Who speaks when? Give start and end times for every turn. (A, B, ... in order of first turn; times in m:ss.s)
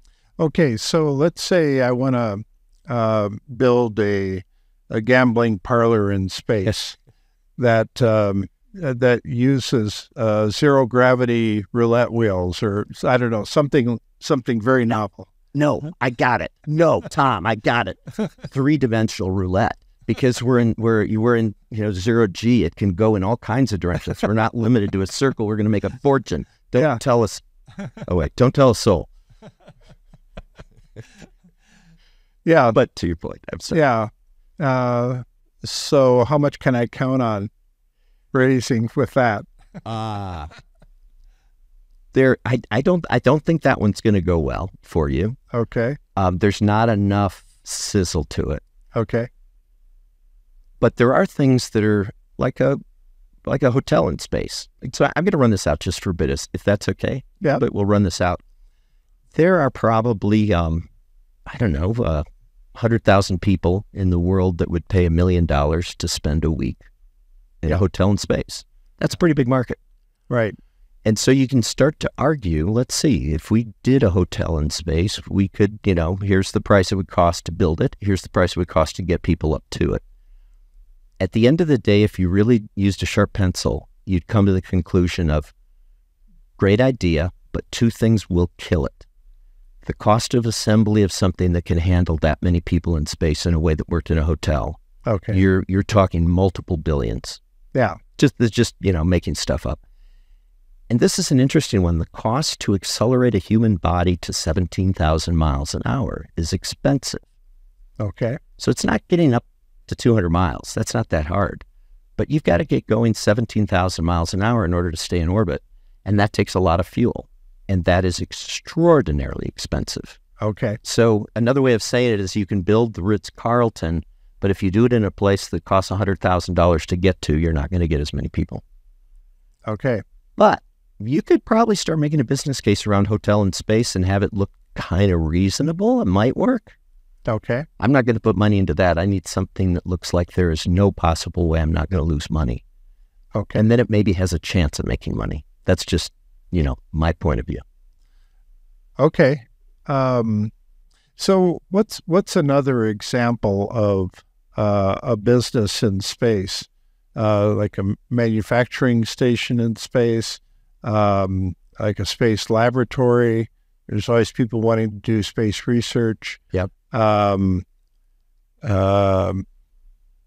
0:00.4-0:07.0 A
0:07.6-0:15.3 A
0:15.5-0:27.4 B
0:28.0-0:29.1 B
0:32.4-0:32.8 A
0:32.7-0:33.8 B
0:33.7-0:37.5 A
0:38.3-0:39.5 A
0:39.8-0:40.5 B
0:42.1-0:45.4 B
0:45.5-0:46.0 A
0:46.2-0:48.6 B
0:48.9-0:49.3 A
0:50.8-0:52.8 B
0:53.4-0:58.4 B
0:59.3-1:00.9 B
1:01.5-1:06.8 B
1:07.6-1:09.8 B
1:10.3-1:10.6 A
1:11.0-1:20.0 B
1:21.2-1:25.5 B
1:26.6-1:29.0 B
1:29.8-1:34.8 B
1:35.0-1:35.4 A
1:35.3-1:37.4 B
1:37.7-1:38.0 A
1:38.2-1:39.8 B
1:40.9-1:47.2 B
1:48.0-1:48.4 A
1:48.6-1:51.6 B
1:52.2-2:00.2 B
2:00.4-2:00.8 A
2:00.8-2:08.6 B
2:09.6-2:10.0 A
2:10.4-2:16.8 B
2:17.2-2:17.7 A
2:17.8-2:22.6 B
2:23.3-2:23.6 A
2:23.5-2:27.6 B
2:29.0-2:30.5 A
2:31.2-2:47.6 A
2:48.6-2:49.4 A